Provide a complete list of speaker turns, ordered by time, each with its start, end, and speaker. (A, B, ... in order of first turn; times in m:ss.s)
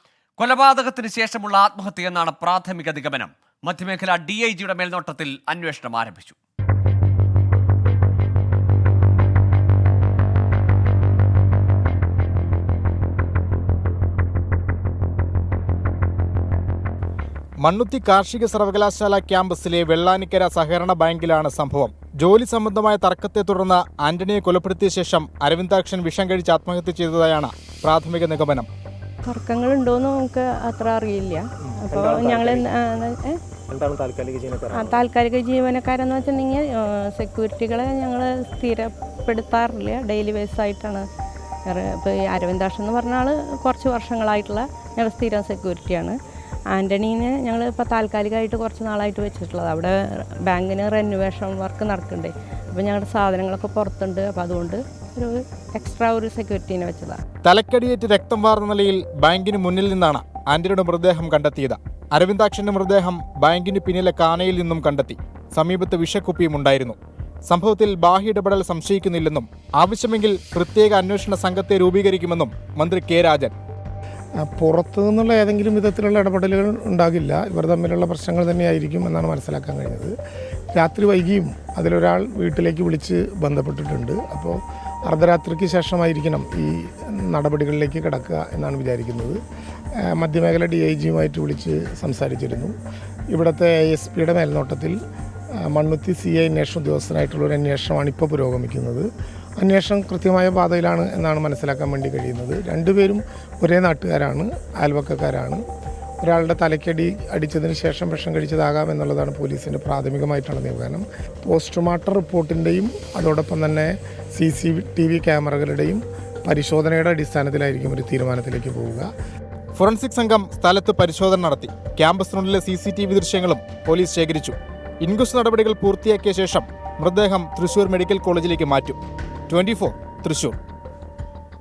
0:00.4-0:06.3 A
0:17.6-0:28.7 B
0:29.2-0:33.4 C
0:31.7-0:32.6 D
0:33.7-0:35.0 D
0:34.7-0:41.0 C
0:41.7-0:46.1 C
0:46.7-0:57.2 C
0:57.4-1:07.0 B
1:07.5-1:13.5 B
1:14.5-1:20.1 E
1:20.8-1:29.4 E
1:30.2-1:32.7 E
1:33.3-1:35.0 E
1:35.7-1:39.1 E
1:39.6-1:45.6 E
1:46.2-1:59.1 E
1:59.8-2:09.0 B
2:09.5-2:10.6 B